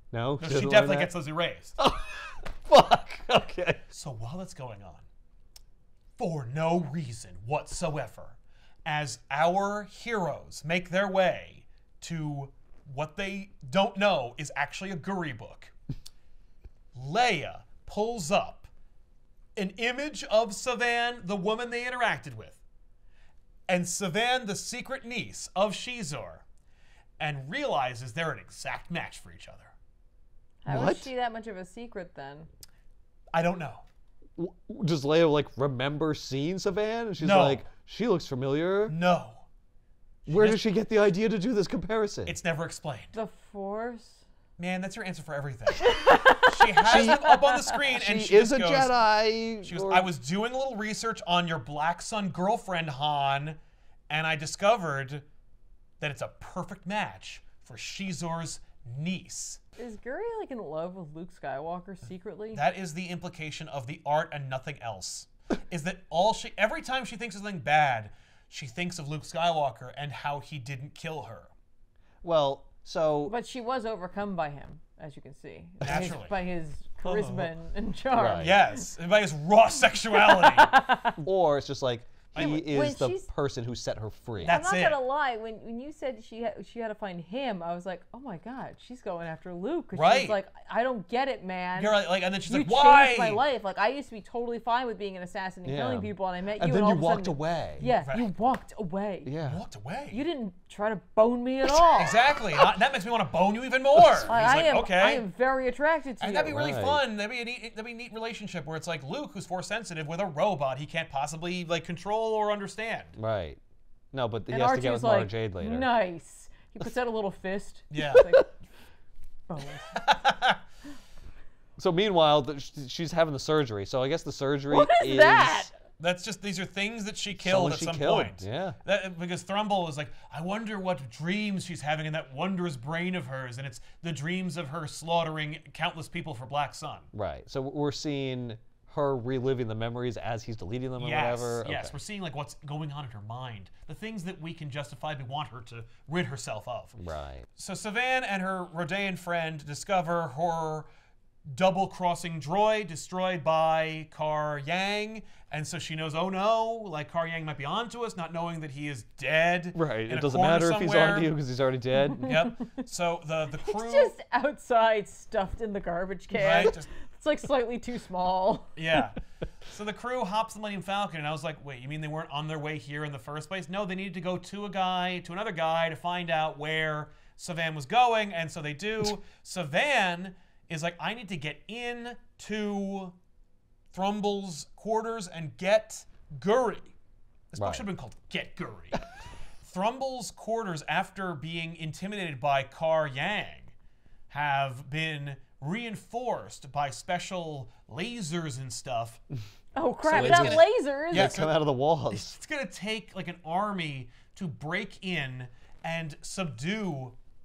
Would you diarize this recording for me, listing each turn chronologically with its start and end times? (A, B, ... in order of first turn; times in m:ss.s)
0:00.1-0:01.1 A
0:00.4-0:01.8 B
0:01.8-0:03.8 A
0:03.9-0:05.0 B
0:06.2-0:15.7 B
0:17.0-0:18.7 B
0:19.6-0:22.6 B
0:23.7-0:26.4 B
0:27.2-0:29.7 B
0:30.6-0:32.5 C
0:30.7-0:31.1 A
0:33.3-0:33.8 B
0:34.4-0:39.0 A
0:37.2-0:37.7 B
0:38.9-0:39.4 B
0:40.3-0:40.6 B
0:40.3-0:42.4 A
0:42.3-0:43.1 B
0:43.1-0:44.2 C
0:44.6-0:48.9 B
0:45.8-0:47.4 C
0:46.9-0:50.1 A
0:49.6-0:53.6 B
0:54.1-0:55.2 B
0:56.0-0:59.6 B
0:59.8-1:02.6 C
1:02.5-1:11.5 B
1:12.2-1:13.4 A
1:13.3-1:18.9 C
1:15.8-1:16.4 B
1:15.8-1:16.2 A
1:17.0-1:17.5 B
1:18.1-1:18.5 A
1:18.4-1:20.7 B
1:20.1-1:21.2 C
1:21.2-1:24.6 A
1:22.3-1:22.6 B
1:22.4-1:23.3 C
1:24.4-1:39.3 C
1:24.4-1:25.0 B
1:29.9-1:30.4 B
1:31.8-1:33.4 B
1:35.6-1:37.9 A
1:39.2-1:39.6 A
1:39.4-1:40.2 B
1:40.1-1:42.2 C
1:42.0-1:45.2 B
1:44.3-1:46.6 C
1:46.2-1:53.2 B
1:46.5-1:47.0 A
1:53.2-1:53.6 A
1:54.1-1:55.9 A
1:54.5-1:58.5 C
1:57.9-1:58.2 B
1:59.5-2:00.0 C
2:00.0-2:00.6 B
2:01.8-2:05.7 A
2:04.7-2:05.7 C
2:06.0-2:17.1 B
2:07.4-2:08.8 A
2:17.1-2:22.0 A
2:21.0-2:27.0 B
2:27.0-2:27.5 A
2:27.6-2:30.9 B
2:31.4-2:41.3 B
2:39.7-2:42.4 A
2:42.1-2:42.5 C
2:42.2-2:44.1 B
2:43.6-2:48.7 C
2:46.3-2:46.9 B
2:48.8-3:03.1 B
3:03.9-3:06.9 B
3:07.5-3:09.0 B
3:07.6-3:07.8 A
3:09.6-3:13.7 B
3:14.3-3:19.2 B
3:19.7-3:21.5 C
3:20.0-3:21.5 B
3:20.1-3:22.4 A
3:22.1-3:27.1 B